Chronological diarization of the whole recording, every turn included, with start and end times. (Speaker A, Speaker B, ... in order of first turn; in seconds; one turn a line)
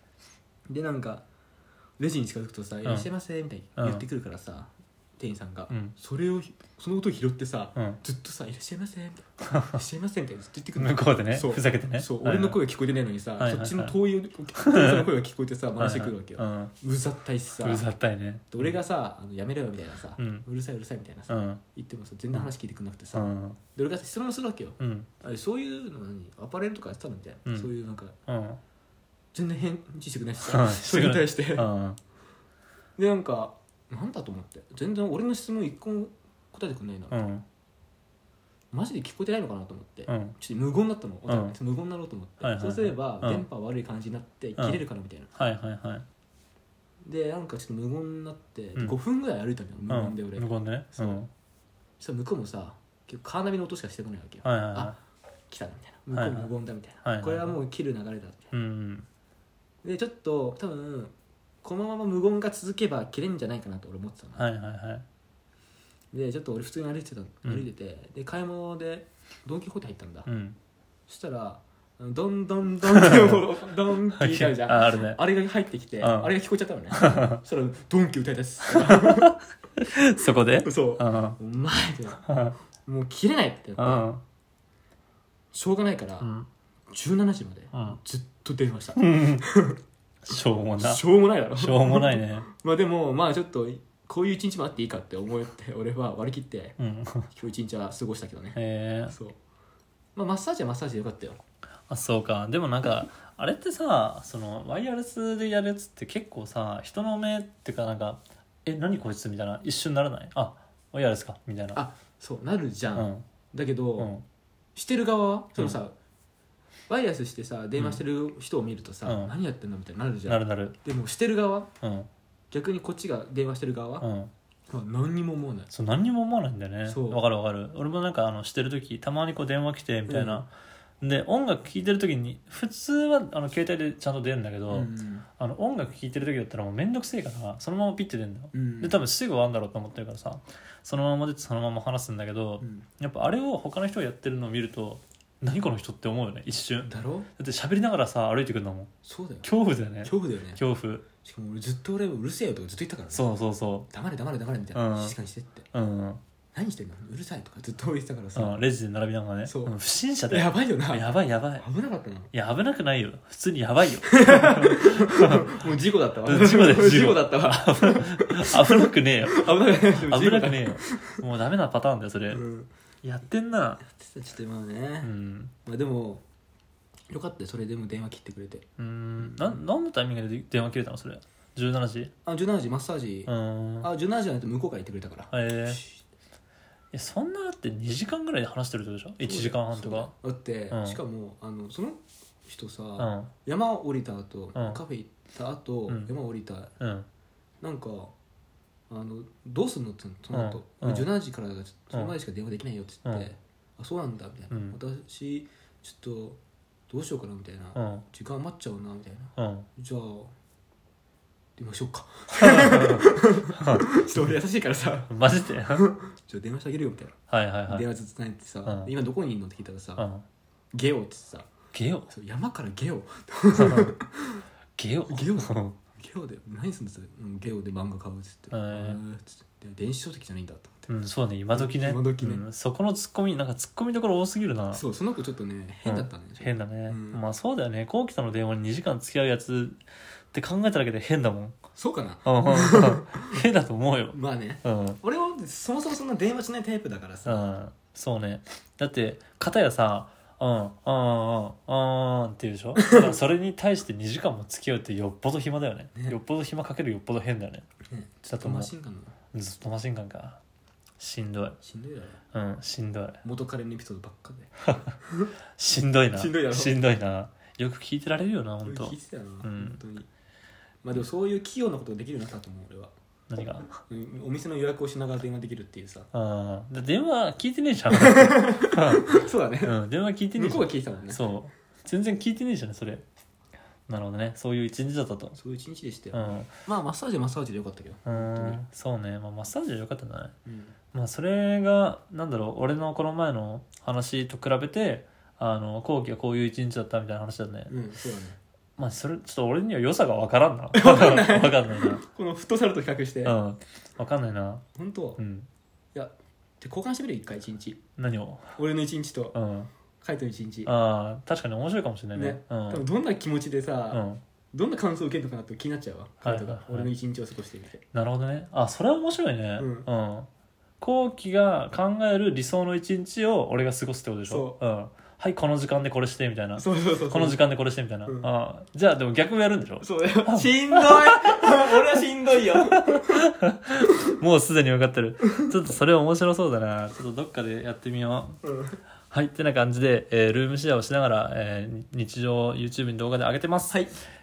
Speaker A: 0.7-1.2
Speaker A: 2.0-17.9
Speaker B: 3.8-4.0
Speaker B: 9.4-9.8
Speaker B: 10.8-12.6
Speaker B: 13.4-13.9
Speaker B: 14.6-15.1
Speaker B: 15.8-16.7
Speaker B: 17.6-18.8
Speaker A: 18.5-28.1
Speaker B: 20.2-20.4
Speaker B: 21.3-21.6
Speaker B: 23.1-23.6
Speaker B: 24.8-25.1
Speaker B: 28.3-28.6
Speaker A: 29.3-31.7
Speaker B: 30.4-32.0
Speaker A: 33.0-37.3
Speaker B: 37.1-37.4
Speaker A: 38.7-45.3
Speaker B: 40.1-40.4
Speaker B: 41.3-41.5
Speaker B: 42.4-43.4
Speaker B: 44.6-44.8
Speaker B: 45.3-46.0
Speaker A: 47.0-51.2
Speaker B: 49.9-51.3
Speaker A: 52.0-55.0
Speaker B: 54.4-55.0
Speaker A: 55.5-58.5
Speaker B: 56.1-56.5
Speaker B: 57.0-57.6
Speaker B: 58.5-59.1
Speaker A: 59.8-64.5
Speaker B: 64.3-65.0
Speaker A: 66.1-70.3
Speaker B: 70.2-70.6
Speaker A: 71.1-79.3
Speaker B: 72.9-73.4
Speaker B: 74.2-75.2
Speaker B: 76.0-76.3
Speaker B: 76.9-77.4
Speaker B: 78.8-81.4
Speaker A: 80.6-82.3
Speaker B: 82.2-82.6
Speaker A: 82.8-84.1
Speaker B: 83.8-84.2
Speaker A: 85.5-86.3
Speaker B: 86.2-86.5
Speaker A: 86.9-89.8
Speaker B: 87.7-88.0
Speaker B: 89.0-89.4
Speaker B: 90.2-92.5
Speaker A: 90.8-96.8
Speaker B: 96.8-97.3
Speaker A: 97.3-99.4
Speaker B: 98.5-99.2
Speaker A: 100.1-101.4
Speaker B: 101.9-111.8
Speaker A: 111.7-114.1
Speaker B: 112.9-113.2
Speaker B: 114.0-114.2
Speaker A: 114.8-115.9
Speaker A: 116.9-121.7
Speaker B: 117.8-118.0
Speaker B: 119.0-119.3
Speaker B: 120.3-120.8
Speaker B: 121.8-122.1
Speaker A: 122.5-124.1
Speaker B: 124.0-124.3
Speaker A: 124.7-125.7
Speaker B: 125.7-130.5
Speaker A: 126.8-127.2
Speaker A: 130.1-130.4
Speaker B: 131.0-148.9
Speaker A: 134.7-135.2
Speaker A: 138.5-139.0
Speaker A: 142.6-142.8
Speaker A: 146.9-147.3
Speaker A: 149.0-149.5
Speaker B: 149.4-151.0
Speaker A: 150.0-150.6
Speaker A: 151.2-153.3
Speaker B: 153.1-153.9
Speaker A: 153.9-155.7
Speaker B: 154.7-155.2
Speaker B: 155.7-156.2
Speaker A: 156.5-158.7
Speaker B: 158.3-161.7
Speaker A: 159.4-159.7
Speaker A: 160.3-162.3
Speaker B: 162.3-165.6
Speaker A: 164.1-171.1
Speaker B: 166.2-172.4
Speaker A: 172.3-172.7
Speaker B: 173.0-173.8
Speaker A: 173.8-175.1
Speaker B: 175.0-175.5
Speaker A: 175.6-176.2
Speaker A: 177.1-178.7
Speaker B: 178.8-182.1
Speaker A: 179.2-179.6
Speaker A: 182.2-186.0
Speaker B: 183.3-183.9
Speaker B: 185.3-185.8
Speaker B: 186.9-190.1
Speaker A: 189.2-196.7
Speaker B: 190.7-191.0
Speaker B: 193.0-193.3
Speaker B: 194.5-194.8
Speaker B: 196.8-197.1
Speaker A: 197.6-198.1
Speaker A: 198.9-210.3
Speaker B: 200.3-201.1
Speaker B: 204.5-204.8
Speaker B: 207.7-208.0
Speaker B: 209.4-209.7
Speaker A: 211.6-215.1
Speaker B: 212.3-214.4
Speaker B: 215.1-215.8
Speaker A: 215.7-220.1
Speaker B: 217.3-217.9
Speaker B: 218.7-218.9
Speaker B: 220.0-220.2
Speaker A: 220.7-221.5
Speaker B: 221.7-222.1
Speaker A: 222.1-224.4
Speaker B: 223.6-223.9
Speaker B: 224.8-225.8
Speaker A: 225.1-230.9
Speaker B: 228.5-229.0
Speaker B: 230.9-234.8
Speaker A: 231.5-232.4
Speaker A: 234.7-237.2
Speaker B: 235.8-239.8
Speaker B: 240.3-241.6
Speaker A: 241.7-243.4
Speaker B: 242.2-245.0
Speaker A: 244.1-247.6
Speaker B: 247.2-257.7
Speaker A: 252.8-253.1
Speaker A: 257.9-259.1
Speaker B: 258.2-258.7
Speaker B: 259.3-260.4
Speaker B: 261.0-261.6
Speaker A: 261.6-262.2
Speaker B: 262.3-263.2
Speaker A: 263.2-265.3
Speaker B: 265.6-269.8
Speaker A: 266.1-266.8
Speaker A: 268.6-270.1
Speaker A: 270.8-272.9
Speaker B: 273.3-273.8
Speaker A: 273.9-276.1
Speaker B: 276.1-283.0
Speaker A: 277.9-279.8
Speaker A: 280.4-281.2
Speaker B: 283.9-285.4
Speaker A: 285.4-288.6
Speaker B: 286.1-286.5
Speaker B: 288.1-290.3
Speaker A: 290.4-290.8
Speaker B: 290.9-297.7
Speaker A: 297.7-298.4
Speaker B: 298.8-302.0
Speaker A: 300.7-303.4
Speaker B: 303.2-304.6
Speaker A: 304.7-305.2
Speaker B: 305.2-305.5
Speaker A: 305.9-307.8
Speaker B: 308.0-308.6
Speaker A: 308.6-309.4
Speaker B: 309.3-309.7
Speaker A: 310.0-310.7
Speaker B: 310.6-312.8
Speaker A: 312.1-317.8
Speaker B: 313.9-314.2
Speaker B: 316.2-316.9
Speaker B: 317.9-320.3
Speaker A: 319.6-319.9
Speaker B: 320.8-331.8
Speaker A: 324.3-324.6
Speaker A: 326.6-327.4
Speaker A: 328.0-328.3
Speaker A: 329.8-333.2
Speaker B: 332.9-338.4
Speaker A: 338.4-338.8
Speaker B: 339.1-343.8